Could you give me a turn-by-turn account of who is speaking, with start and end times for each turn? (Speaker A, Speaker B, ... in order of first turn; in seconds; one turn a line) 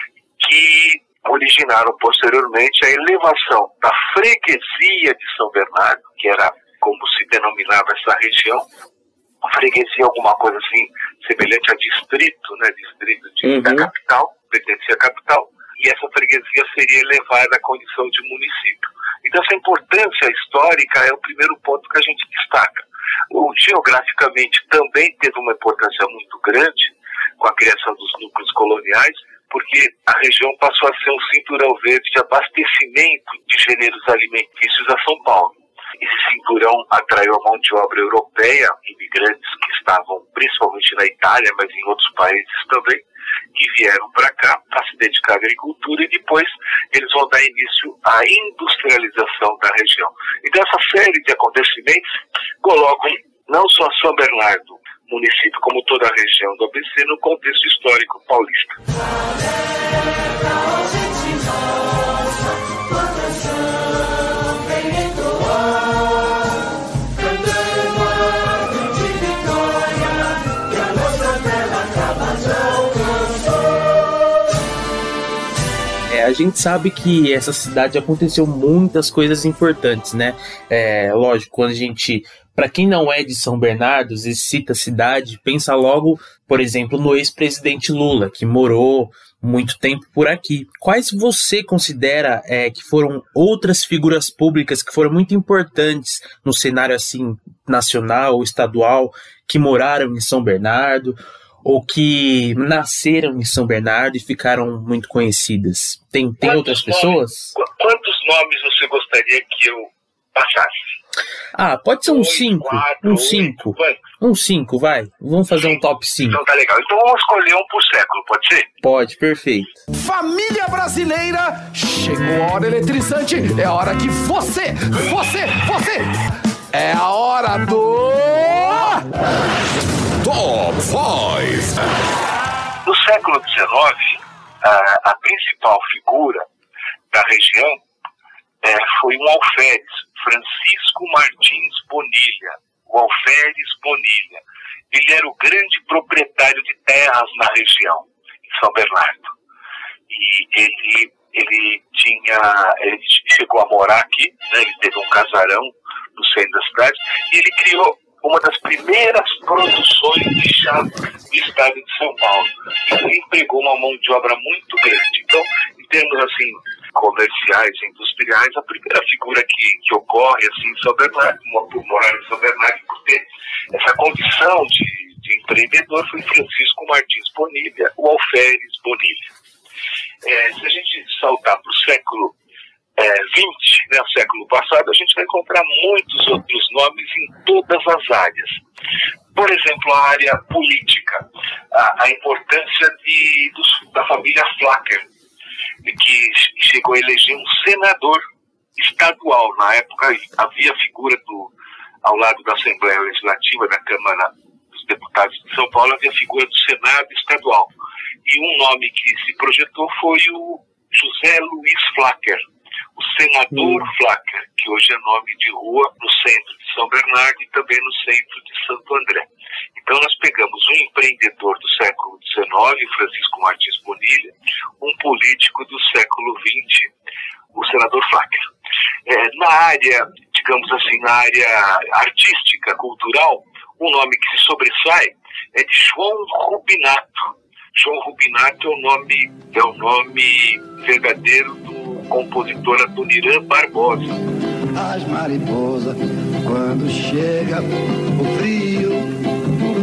Speaker A: 0.4-8.7
Speaker A: 9.4-43.0
Speaker B: 13.4-13.9
Speaker A: 43.5-52.1
Speaker A: 52.6-58.8
Speaker B: 76.1-107.5
Speaker A: 106.4-110.8
Speaker B: 111.5-116.4
Speaker A: 112.0-114.0
Speaker A: 115.5-118.7
Speaker B: 118.8-119.8
Speaker C: 119.9-126.2
Speaker C: 126.7-129.1
Speaker C: 130.2-131.8
Speaker A: 132.8-136.4
Speaker A: 137.1-137.8
Speaker A: 138.6-149.3
Speaker A: 150.1-179.3
Speaker A: 180.2-182.3
Speaker A: 183.0-188.6
Speaker A: 189.3-195.1
Speaker A: 195.8-198.2
Speaker A: 198.8-201.5
Speaker A: 202.0-207.7
Speaker A: 208.2-212.4
Speaker A: 213.0-226.9
Speaker A: 227.5-228.5
Speaker A: 229.1-244.1
Speaker D: 244.7-249.4